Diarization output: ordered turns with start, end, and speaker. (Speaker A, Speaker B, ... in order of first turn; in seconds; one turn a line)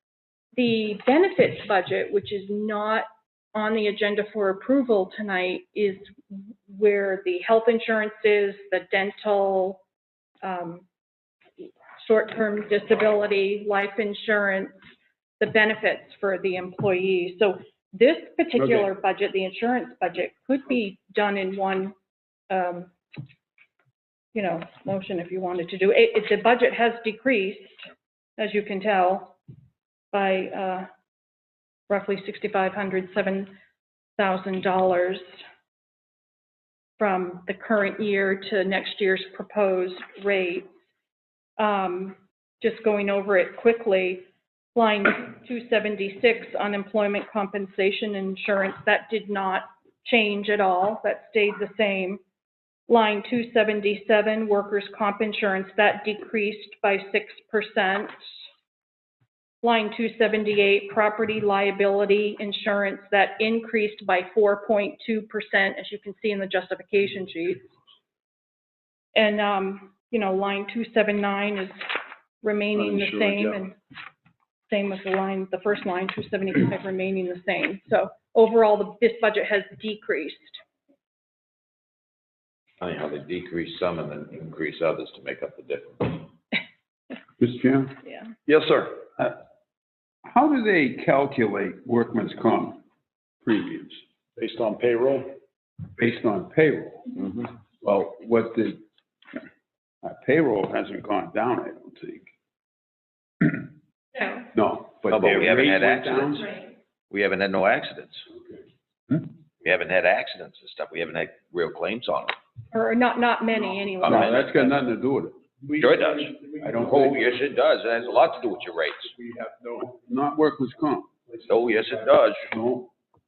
Speaker A: 0.6-9.8
Speaker A: 10.4-10.8
Speaker A: 12.0-14.8
Speaker A: 15.4-21.9
Speaker A: 22.5-22.9
Speaker A: 24.3-29.3
Speaker A: 30.1-30.9
Speaker A: 31.9-33.5
Speaker A: 34.2-35.2
Speaker A: 37.0-40.7
Speaker A: 41.6-52.2
Speaker A: 52.9-58.1
Speaker A: 59.6-67.7
Speaker A: 69.1-71.8
Speaker A: 72.4-73.8
Speaker B: 72.7-73.6
Speaker A: 74.7-80.6
Speaker C: 82.8-86.3
Speaker D: 87.4-88.0
Speaker B: 88.5-89.0
Speaker D: 90.2-92.8
Speaker D: 93.4-94.0
Speaker B: 94.4-95.3
Speaker D: 96.0-97.2
Speaker D: 97.8-98.8
Speaker D: 100.0-102.3
Speaker D: 104.5-106.5
Speaker C: 105.1-106.5
Speaker C: 107.1-108.2
Speaker C: 109.6-112.3
Speaker A: 112.7-114.8
Speaker C: 114.0-114.7
Speaker D: 114.0-115.4
Speaker B: 115.6-117.4
Speaker C: 115.8-119.1
Speaker D: 116.6-117.3
Speaker B: 119.1-119.8
Speaker D: 119.8-121.1
Speaker C: 121.5-122.5
Speaker D: 122.5-122.9